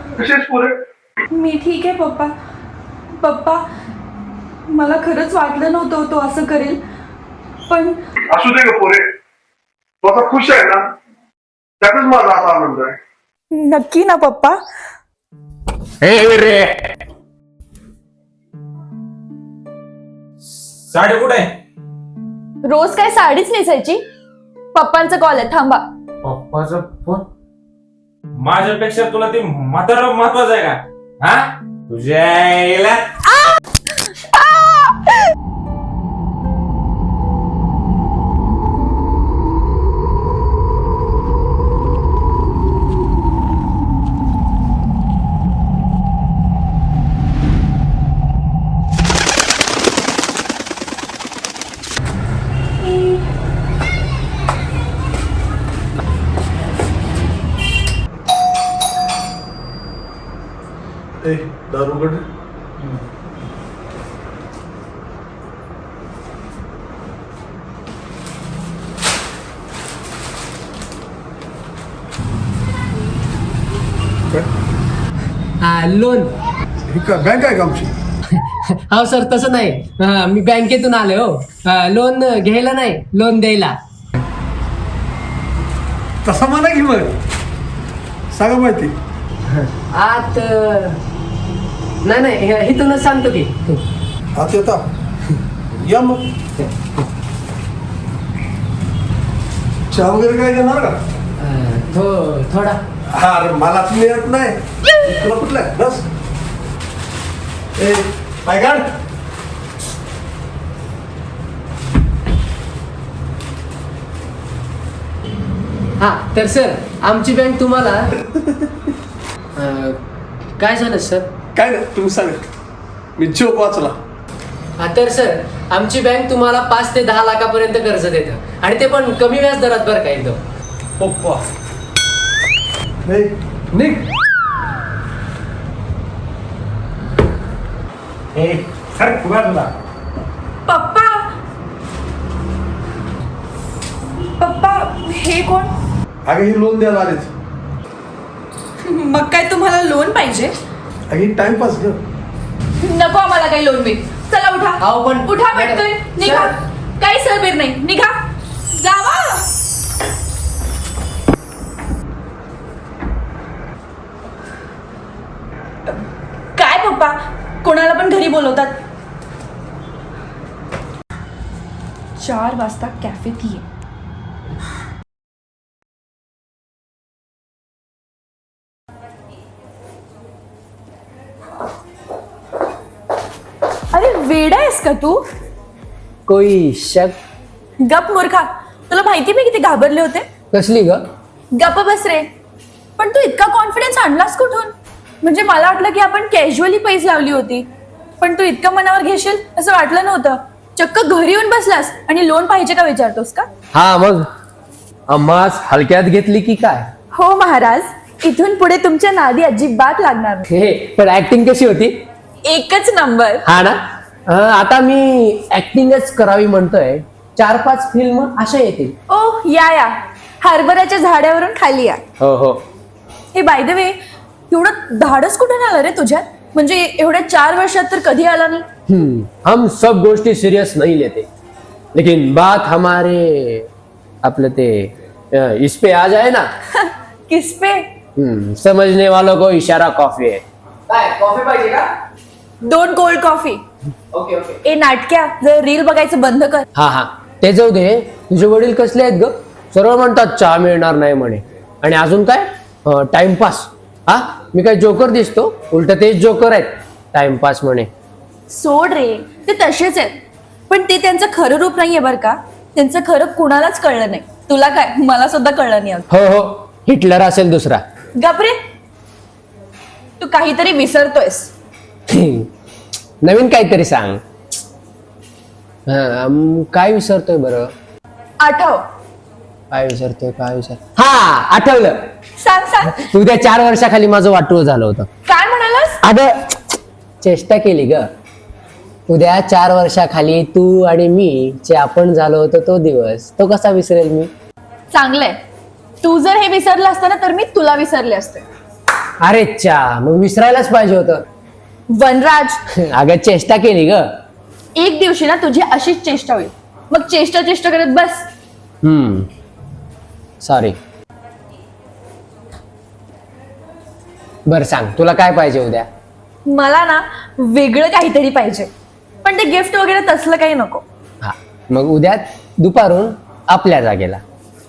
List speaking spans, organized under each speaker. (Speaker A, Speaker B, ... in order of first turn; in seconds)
Speaker A: 0.2-0.8, 8.3-9.1, 10.0-10.9, 11.8-13.0, 61.2-62.2, 76.8-77.9, 86.2-87.2, 88.3-88.9, 94.3-94.8, 95.7-96.3, 99.9-101.0, 103.1-106.1, 107.8-108.9, 121.5-122.4, 123.2-124.0, 131.0-131.3, 133.0-134.0, 146.2-147.3, 151.1-152.0
Speaker B: 1.3-2.3, 3.2-3.6, 4.7-6.8, 7.7-8.0, 13.5-14.6, 22.6-24.0, 24.7-25.9, 34.1-34.9, 140.7-141.3, 144.4-145.7, 148.8-150.5, 152.8-159.5, 166.6-168.8, 172.2-173.6, 183.9-185.3, 187.8-190.2, 191.5-192.3, 193.0-197.7, 198.2-203.5, 207.1-210.5, 212.4-213.4, 219.1-222.0, 223.3-224.0, 224.5-228.7, 236.7-237.9, 242.6-243.6, 244.6-246.6, 258.5-266.1, 268.1-268.6, 270.2-271.5, 278.4-278.9, 282.4-283.1, 285.3-286.0, 294.9-295.4, 296.0-298.4, 301.9-302.6, 304.8-308.3, 316.4-318.7, 319.2-320.8
Speaker C: 16.0-16.9, 20.5-21.5, 26.2-27.2, 28.4-33.1, 138.3-139.7
Speaker D: 75.6-76.3, 78.3-83.8, 89.5-91.0, 92.0-93.8, 101.4-102.8, 116.0-118.1, 119.5-120.0, 120.6-121.3, 124.8-130.4, 154.8-156.5, 186.3-187.2, 190.5-191.1, 203.7-204.3, 205.1-206.9, 210.5-212.0, 213.4-218.9, 222.2-222.6, 228.9-231.3, 231.9-233.7, 234.2-236.5, 238.2-241.9, 244.1-244.6, 246.7-257.9, 266.1-267.8, 272.1-272.5, 273.2-274.2, 275.9-277.7, 279.7-282.1, 282.9-285.1, 286.0-288.1, 289.1-294.3, 299.2-301.2, 302.7-304.2, 308.8-309.3, 310.4-310.8, 314.4-315.9, 321.2-324.2